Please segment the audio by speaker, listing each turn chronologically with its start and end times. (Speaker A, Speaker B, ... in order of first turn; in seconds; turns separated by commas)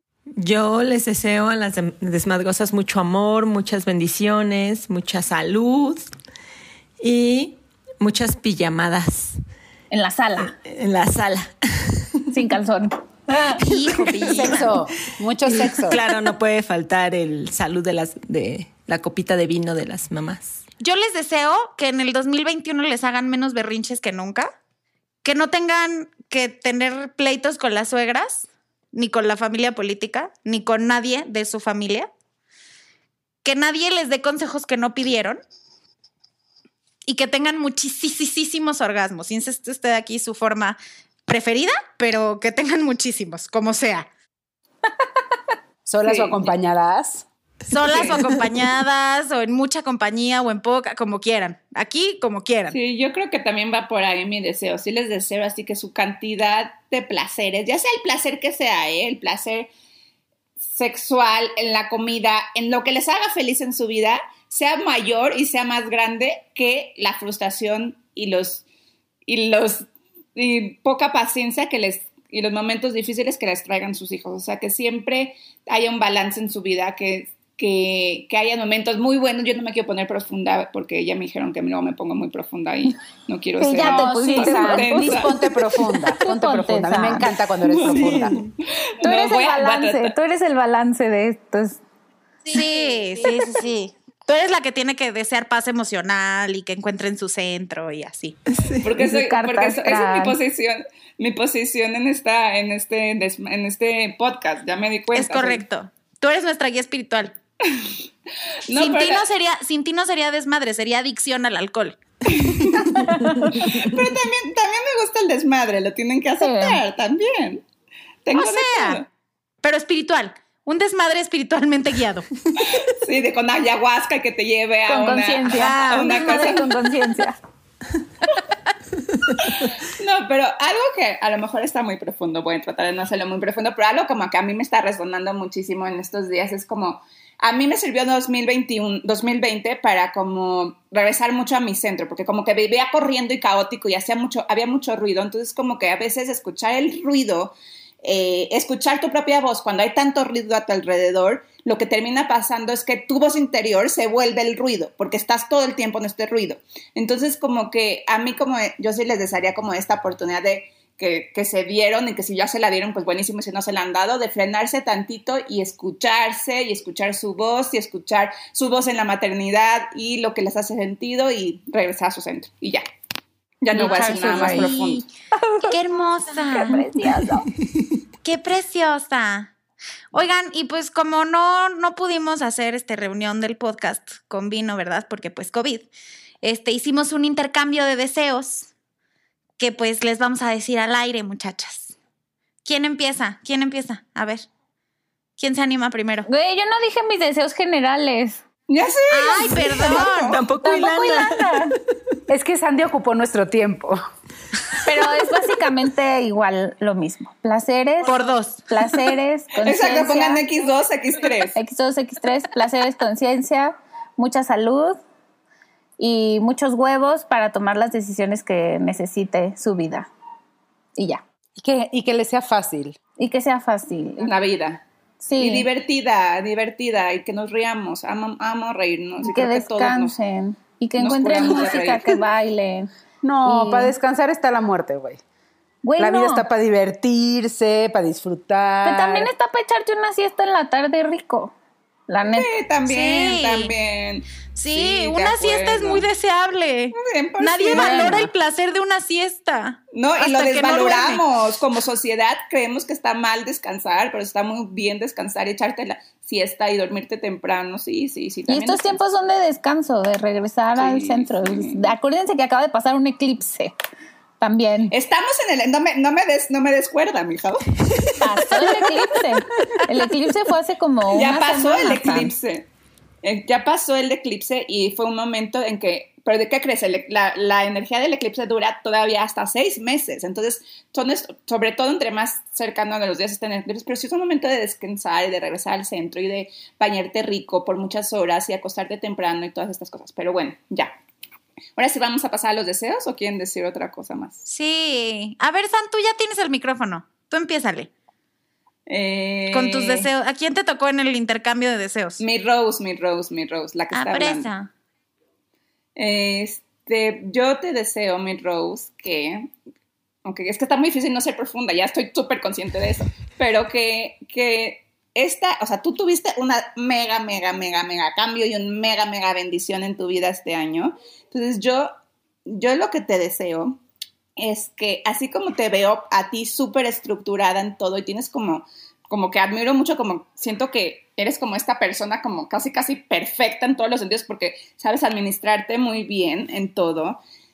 Speaker A: 0.4-6.1, Speaker A: 7.0-9.4, Speaker B: 9.9-10.6, Speaker A: 10.4-12.4, Speaker B: 12.3-13.6, Speaker C: 13.6-14.7, Speaker A: 13.6-14.7, Speaker D: 14.3-16.0, Speaker A: 15.4-20.6, Speaker C: 20.8-24.5, Speaker C: 25.2-32.1, Speaker C: 33.4-35.4, Speaker C: 37.1-44.1, Speaker D: 45.9-47.2, Speaker E: 46.0-46.5, Speaker C: 47.7-52.8, Speaker E: 47.9-48.2, Speaker E: 52.7-59.7, Speaker E: 60.6-68.6, Speaker E: 69.2-85.4, Speaker B: 83.6-85.3, Speaker D: 83.8-88.4, Speaker B: 86.2-87.3, Speaker E: 87.7-90.1, Speaker A: 88.1-88.4, Speaker B: 89.0-91.8, Speaker C: 92.5-98.4, Speaker A: 98.5-98.8, Speaker E: 98.8-105.6, Speaker B: 99.0-100.4, Speaker C: 105.1-107.3, Speaker E: 107.6-108.0, Speaker E: 108.7-109.2, Speaker C: 108.7-112.0, Speaker E: 112.3-117.6, Speaker B: 113.0-113.6, Speaker B: 116.4-116.8, Speaker E: 118.2-119.0, Speaker C: 118.3-119.0, Speaker C: 119.6-122.3, Speaker E: 122.6-126.7, Speaker B: 124.9-127.4, Speaker C: 125.5-126.4, Speaker E: 129.4-172.8, Speaker E: 173.6-175.0, Speaker B: 173.7-174.7, Speaker C: 173.7-175.0, Speaker B: 175.4-175.7, Speaker C: 175.7-176.8, Speaker B: 176.3-177.5, Speaker C: 178.2-179.5, Speaker C: 180.1-185.9, Speaker C: 186.4-188.7, Speaker C: 189.6-191.9, Speaker C: 192.6-194.4, Speaker C: 195.4-196.3, Speaker B: 196.2-198.4, Speaker E: 198.7-200.4, Speaker C: 199.1-200.4, Speaker A: 200.3-201.6, Speaker B: 200.6-201.7, Speaker D: 202.3-204.0, Speaker B: 204.8-210.4, Speaker C: 208.0-208.7, Speaker E: 209.6-211.6, Speaker B: 211.5-215.0, Speaker B: 216.0-220.1, Speaker B: 221.0-221.2, Speaker D: 221.6-223.0, Speaker B: 223.2-224.3, Speaker E: 224.2-224.8, Speaker B: 225.2-225.7, Speaker E: 225.4-230.1, Speaker B: 229.2-232.9, Speaker E: 231.0-232.1, Speaker D: 233.2-235.2, Speaker B: 233.4-233.9, Speaker B: 235.8-236.4, Speaker D: 236.0-239.3, Speaker B: 238.8-241.5, Speaker B: 242.1-242.5, Speaker E: 242.3-246.1, Speaker C: 242.8-243.7, Speaker C: 244.5-251.2, Speaker E: 246.9-248.3, Speaker B: 247.7-248.3, Speaker E: 249.9-259.0, Speaker B: 258.5-263.7, Speaker E: 260.8-261.9, Speaker B: 264.4-264.9, Speaker E: 264.9-267.7, Speaker B: 268.2-272.3, Speaker E: 268.4-268.8, Speaker E: 271.1-272.7, Speaker E: 273.2-290.9, Speaker E: 291.8-294.4, Speaker C: 294.5-297.9, Speaker E: 298.9-300.1, Speaker C: 299.5-302.2, Speaker E: 302.2-304.5, Speaker C: 303.9-304.7, Speaker E: 305.9-309.5, Speaker E: 310.2-321.9, Speaker E: 322.4-323.8, Speaker E: 324.4-337.2